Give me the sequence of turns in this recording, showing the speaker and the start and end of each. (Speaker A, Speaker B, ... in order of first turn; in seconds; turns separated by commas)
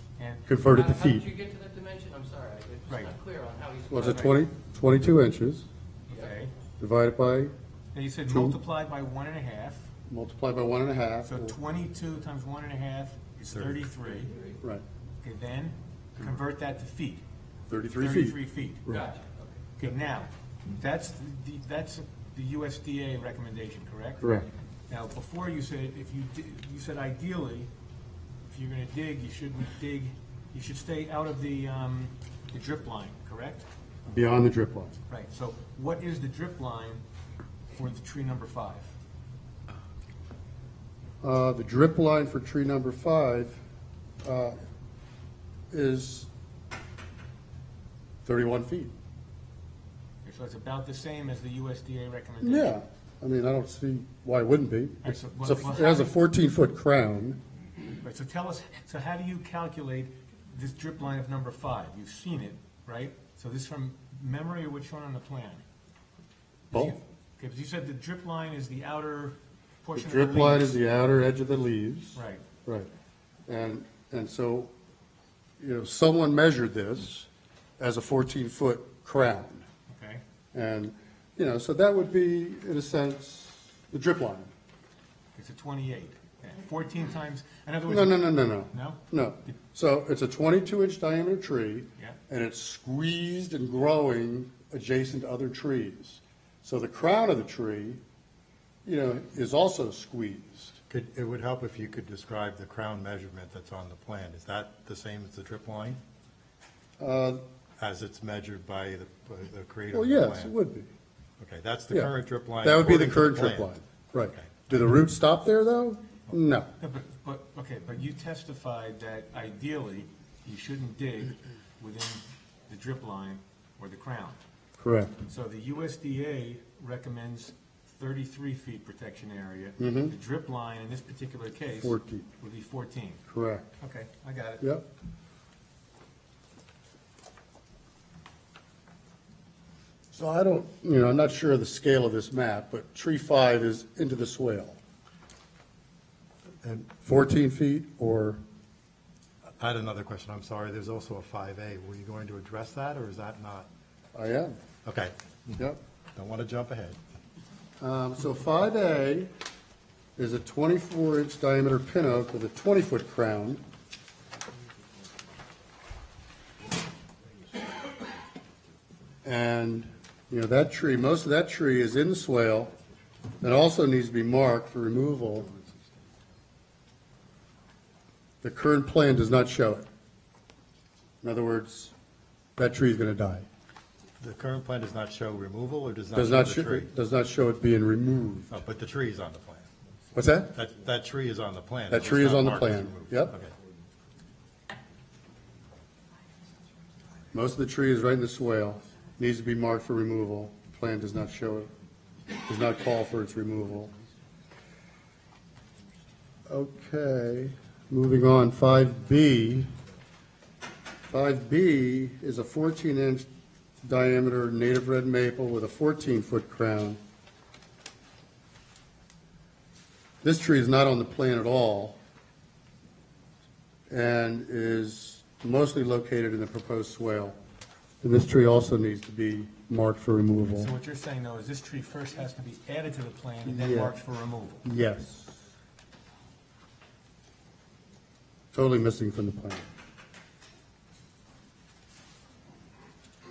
Speaker A: 0.2-0.4, Speaker B: 0.5-1.3, Speaker C: 0.7-4.4, Speaker A: 2.9-3.1, Speaker B: 3.9-5.7, Speaker A: 4.0-4.4, Speaker A: 6.1-6.5, Speaker B: 6.8-7.5, Speaker A: 7.9-9.8, Speaker B: 8.3-8.6, Speaker B: 10.1-11.6, Speaker A: 11.2-14.3, Speaker D: 13.4-13.8, Speaker C: 14.2-14.6, Speaker A: 15.2-17.2, Speaker B: 17.7-19.0, Speaker A: 17.9-18.9, Speaker C: 18.9-19.6, Speaker A: 19.8-27.7, Speaker B: 24.2-24.5, Speaker A: 28.5-33.6, Speaker B: 34.1-34.9, Speaker A: 35.1-37.0, Speaker A: 37.7-38.9, Speaker B: 41.2-43.6, Speaker B: 44.2-44.6, Speaker B: 45.7-46.3, Speaker B: 48.2-48.9, Speaker A: 50.2-52.8, Speaker B: 52.4-57.4, Speaker A: 55.0-56.1, Speaker A: 58.0-65.6, Speaker B: 66.7-67.0, Speaker A: 66.7-70.9, Speaker B: 69.9-72.9, Speaker A: 72.1-72.4, Speaker B: 73.5-74.7, Speaker B: 75.6-77.3, Speaker B: 77.8-79.6, Speaker A: 79.9-80.2, Speaker B: 80.5-84.5, Speaker A: 85.3-89.5, Speaker B: 87.9-98.0, Speaker B: 98.8-100.8, Speaker D: 100.9-106.0, Speaker B: 107.0-107.4, Speaker D: 107.8-110.5, Speaker B: 109.9-110.9, Speaker D: 111.4-114.8, Speaker B: 111.9-116.7, Speaker A: 116.8-124.4, Speaker B: 124.8-125.1, Speaker A: 125.3-133.2, Speaker B: 129.8-130.1, Speaker B: 131.8-132.3, Speaker B: 133.3-133.7, Speaker A: 133.8-134.7, Speaker B: 140.1-144.8, Speaker B: 146.6-148.4, Speaker D: 149.6-153.7, Speaker B: 154.1-154.6, Speaker D: 154.8-155.6, Speaker D: 156.1-157.0, Speaker B: 157.8-159.3, Speaker B: 160.2-163.6, Speaker B: 169.2-172.7, Speaker B: 173.4-175.5, Speaker B: 178.4-179.8, Speaker B: 181.2-181.9, Speaker B: 182.6-183.5, Speaker D: 184.2-186.9, Speaker B: 186.1-188.5, Speaker D: 188.5-189.7, Speaker B: 190.1-190.5, Speaker D: 190.5-193.5, Speaker B: 191.9-193.4, Speaker B: 197.3-201.7, Speaker B: 202.4-203.9, Speaker B: 206.5-209.7, Speaker B: 211.1-213.2, Speaker B: 213.8-217.0, Speaker B: 220.2-222.0, Speaker B: 223.9-227.4, Speaker B: 228.0-230.7, Speaker A: 230.5-234.6, Speaker B: 233.4-233.9, Speaker B: 234.6-235.5, Speaker B: 238.5-239.7